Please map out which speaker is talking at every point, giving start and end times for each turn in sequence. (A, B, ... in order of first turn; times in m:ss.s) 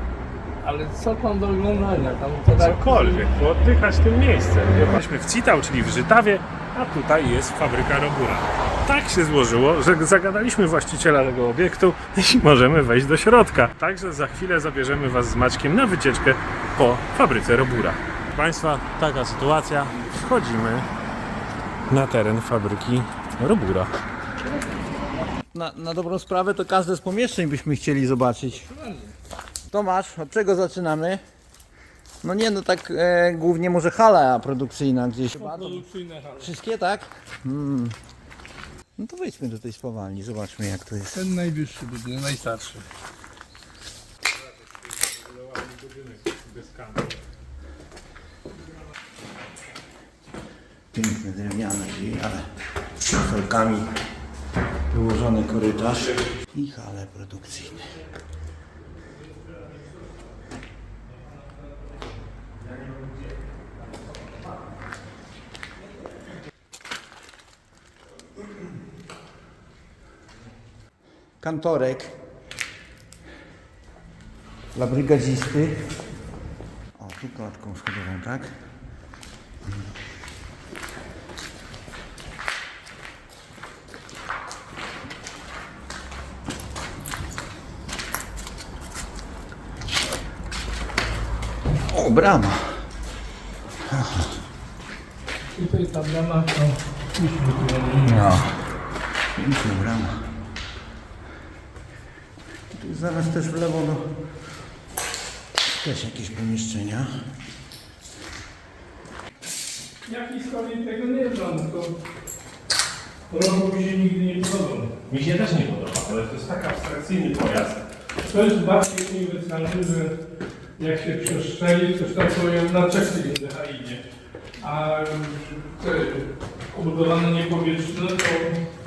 0:00.6-0:03.3 A
0:02.5-0:20.9 B
0:21.9-0:23.9 B
0:25.3-0:28.6 C
0:28.5-0:29.2 A
0:29.7-0:31.2 C
0:32.2-0:35.8 C
0:35.3-0:36.5 A
0:36.4-0:38.0 C
0:39.0-0:41.2 C
0:41.1-0:42.9 A
0:44.4-0:47.2 B
0:50.9-0:52.4 C
0:53.0-0:53.9 C
0:54.9-0:57.9 C
1:11.4-1:12.2 C
1:14.7-1:15.9 C
1:17.0-1:18.6 C
1:31.8-1:32.8 C
1:33.8-1:34.3 C
1:35.5-1:38.4 A
1:38.0-1:38.6 C
1:39.3-1:40.3 C
1:42.7-1:44.1 C
1:45.7-1:47.1 C
1:50.1-1:52.0 A
1:53.3-1:54.9 A
1:55.1-1:57.8 B
1:58.2-2:00.1 A
2:00.8-2:04.0 A
2:04.6-2:08.5 A